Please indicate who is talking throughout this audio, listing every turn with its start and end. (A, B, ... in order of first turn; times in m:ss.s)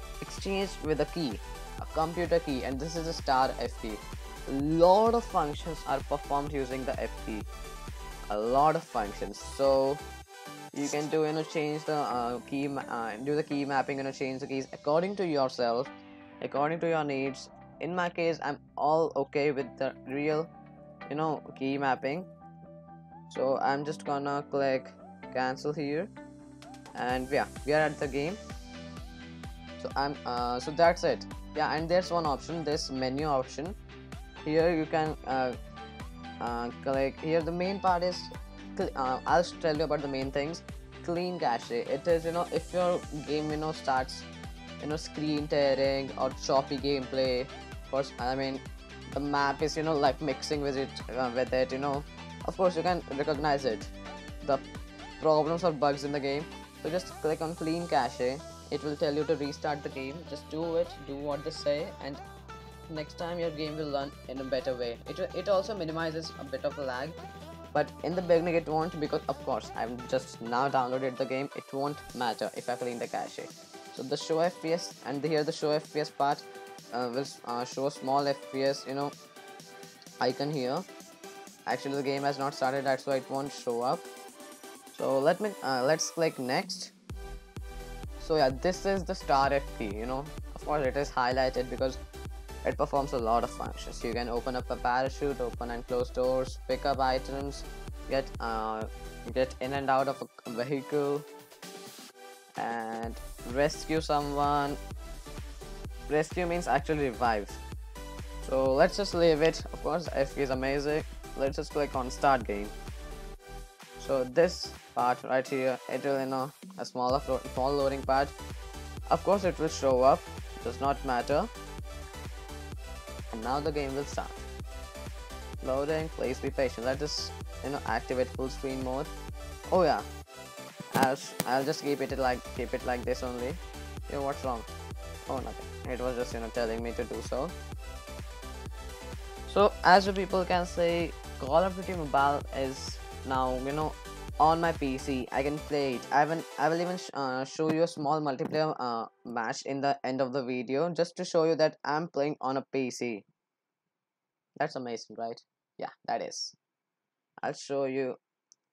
0:00.2-0:07.5 A
0:08.3-0:10.0 A
0:10.7-0:20.5 A
0:21.1-0:22.3 A
0:23.3-0:26.1 A
0:27.0-0:28.4 A
0:29.8-0:33.8 A
0:34.4-0:35.6 A
0:36.4-0:44.3 A
0:44.8-0:53.9 A
0:55.2-1:02.2 A
1:02.9-1:07.2 A
1:07.7-1:19.1 A
1:20.2-1:20.9 A
1:21.7-1:24.1 A
1:24.9-1:26.9 A
1:28.2-1:32.0 A
1:32.6-1:41.3 A
1:42.6-1:44.8 A
1:46.1-1:47.6 A
1:48.4-1:52.7 A
1:54.0-1:58.4 A
1:59.1-2:01.5 A
2:03.3-2:04.5 A
2:05.6-2:09.1 A
2:09.7-2:10.1 A
2:10.9-2:14.7 A
2:15.3-2:17.5 A
2:19.5-2:33.2 A
2:34.6-2:36.6 A
2:37.4-2:38.2 A